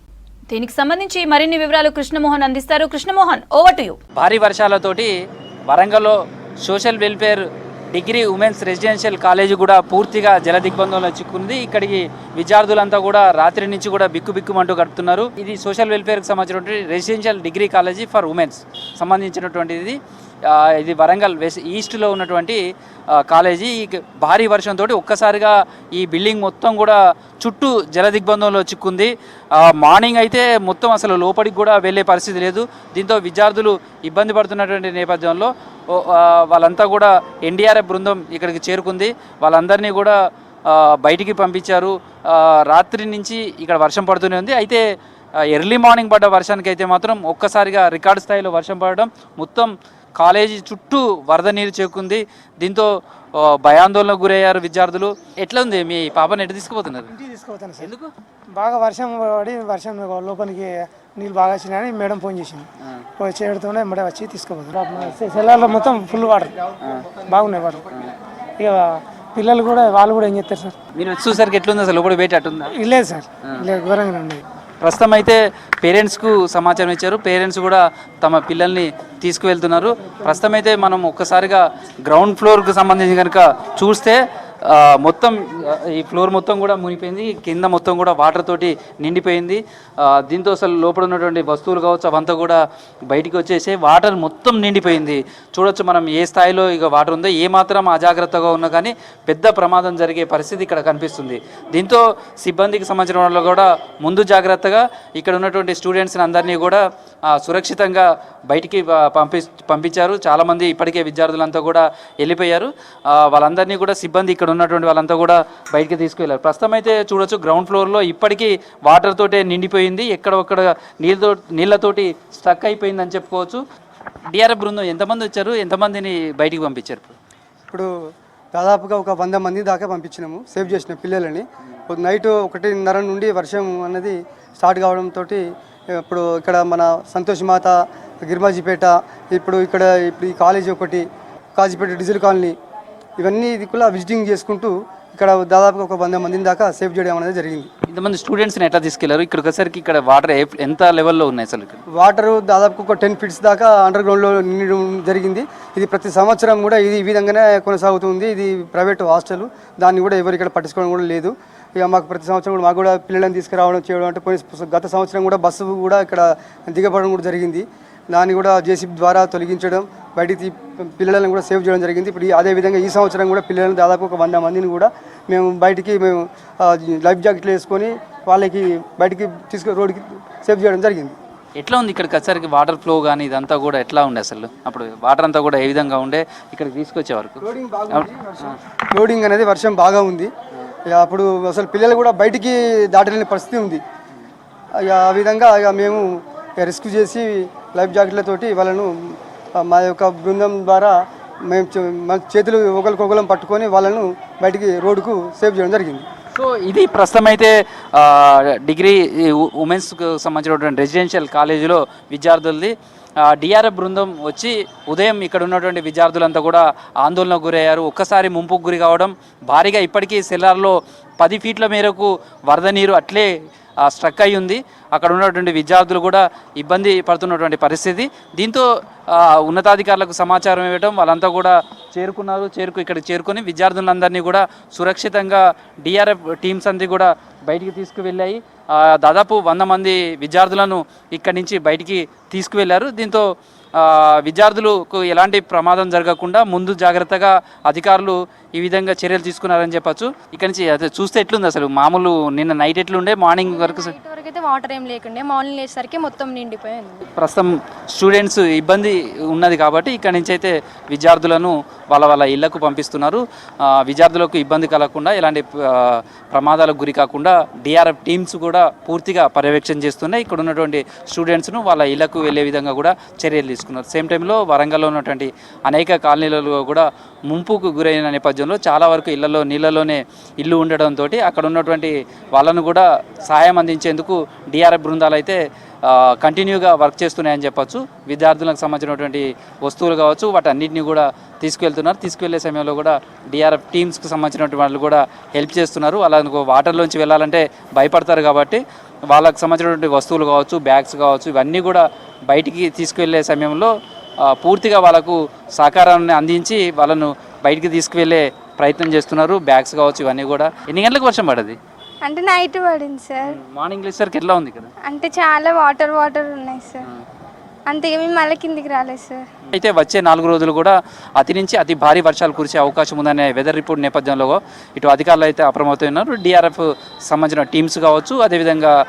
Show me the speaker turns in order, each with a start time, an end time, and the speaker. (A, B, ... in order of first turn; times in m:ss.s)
0:00.5-0:04.0 A
0:04.2-0:05.1 B
0:05.7-0:22.6 B
0:23.1-0:40.1 B
0:40.6-0:44.8 B
0:45.5-0:57.1 B
0:57.1-0:57.9 C
0:57.8-0:58.1 B
0:58.5-1:06.6 C
1:06.8-1:07.1 B
1:07.2-1:07.9 C
1:08.6-1:10.8 C
1:10.9-1:12.7 B
1:12.7-1:14.4 C
1:14.8-2:03.6 B
2:04.3-2:07.1 B
2:08.5-2:21.0 D
2:21.6-2:22.5 D
2:23.2-2:27.7 D
2:27.9-2:31.8 B
2:31.9-3:01.1 D
3:01.6-3:08.5 B
3:07.4-3:10.3 D
3:10.9-3:13.8 D
3:14.8-3:20.9 D
3:21.5-3:26.0 D
3:26.3-3:43.3 B
3:43.8-4:03.2 B
4:03.8-4:14.0 B
4:13.4-4:17.0 E
4:17.2-5:03.7 B
5:04.2-5:11.6 B
5:12.0-5:13.3 F
5:13.3-5:14.7 B
5:14.9-5:16.8 F
5:17.7-5:19.2 F
5:19.5-5:28.8 B